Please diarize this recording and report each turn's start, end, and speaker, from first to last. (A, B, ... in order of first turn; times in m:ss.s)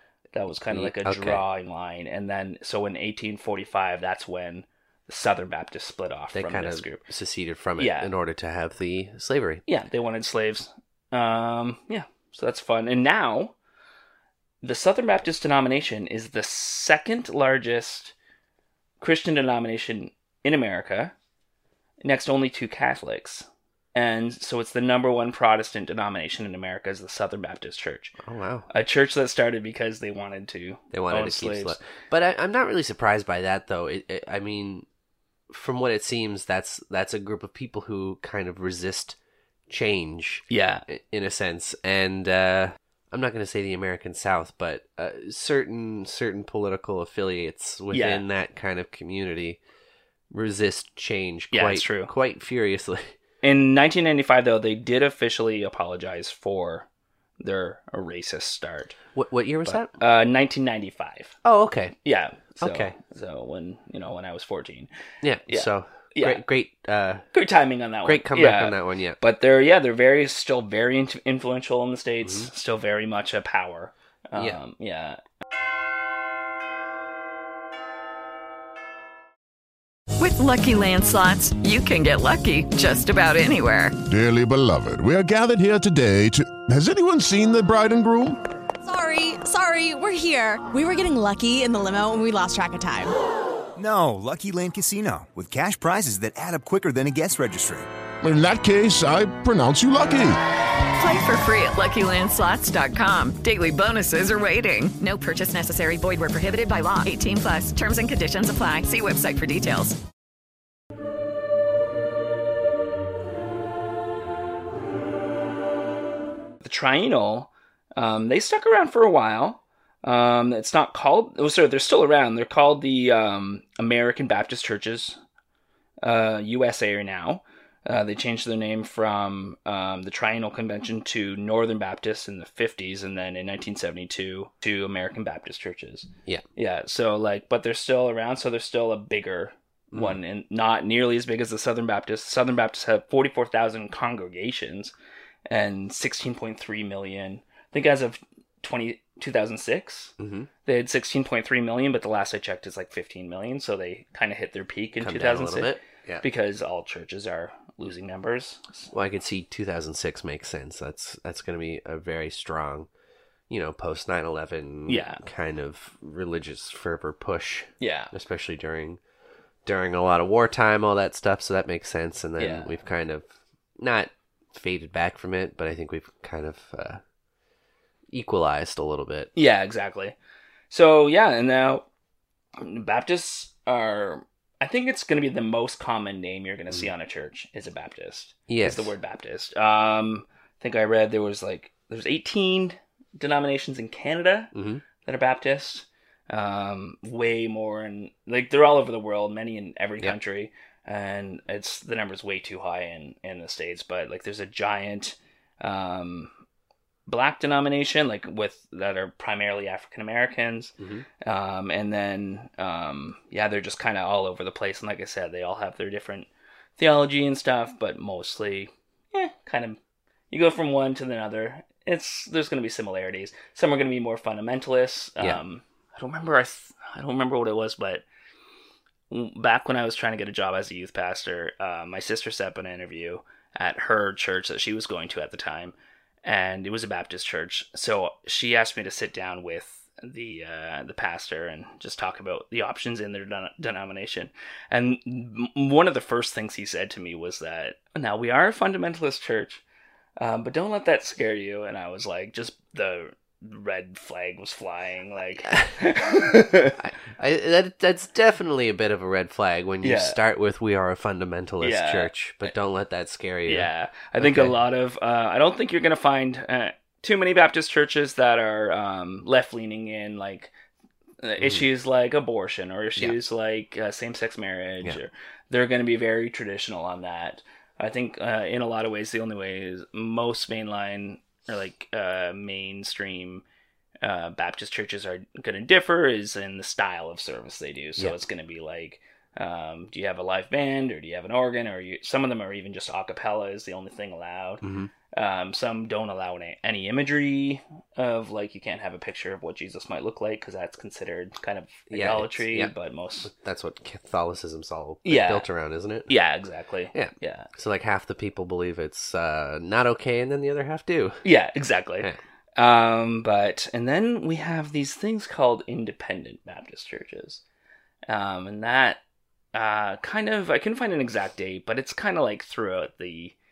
0:00.3-0:07.0 A
0:00.7-0:01.4 B
0:06.3-0:09.6 B
0:07.8-0:08.1 A
0:09.7-0:13.5 A
0:14.6-0:18.1 A
0:19.0-0:21.1 A
0:22.0-0:28.1 A
0:28.2-0:28.6 B
0:28.7-0:31.8 A
0:30.9-0:34.8 B
0:35.5-0:39.2 B
0:39.7-0:49.6 B
0:40.5-0:40.8 A
0:47.9-0:48.2 A
0:50.3-0:53.1 B
0:51.5-0:52.1 A
0:53.4-0:56.8 A
0:57.4-0:59.0 A
0:59.1-0:59.9 B
0:59.6-1:01.3 A
1:01.4-1:02.0 B
1:02.0-1:04.9 A
1:02.6-1:02.9 B
1:05.2-1:07.2 B
1:05.5-1:06.4 A
1:07.3-1:15.2 A
1:08.0-1:09.2 B
1:12.2-1:12.5 B
1:20.2-1:24.0 C
1:24.1-1:28.4 D
1:28.8-1:33.1 E
1:33.8-1:37.9 F
1:38.2-1:40.4 D
1:41.0-1:50.0 C
1:56.6-2:05.2 A
2:06.0-2:24.9 A
2:19.9-2:20.2 B
2:25.5-2:30.1 A
2:30.2-2:30.5 B
2:30.6-2:38.9 A
2:35.0-2:36.2 B
2:38.9-2:42.9 B
2:43.5-2:49.0 B
2:44.9-2:45.2 A
2:47.8-2:48.1 A
2:49.6-2:57.0 B
2:52.4-2:52.7 A
2:58.1-2:59.3 B
2:59.4-3:00.1 A
3:00.7-3:01.8 A
3:02.6-3:14.5 A
3:08.5-3:08.9 B
3:14.5-3:14.8 B
3:15.0-3:26.3 A
3:27.1-3:39.8 A
3:30.8-3:31.0 B
3:40.3-3:48.0 A
3:49.1-4:09.6 A
4:10.2-4:16.8 A
4:16.8-4:24.6 B
4:19.8-4:20.2 A
4:21.6-4:22.5 A
4:23.4-4:30.5 A
4:31.2-4:43.4 A
4:31.4-4:31.6 B
4:44.0-5:03.3 A
4:54.6-4:54.9 B
5:01.9-5:02.7 B
5:03.2-5:06.1 B
5:05.0-5:05.4 A
5:06.1-5:07.5 A
5:06.9-5:11.2 B
5:11.2-5:17.4 A
5:18.1-5:19.0 A
5:19.5-5:23.3 A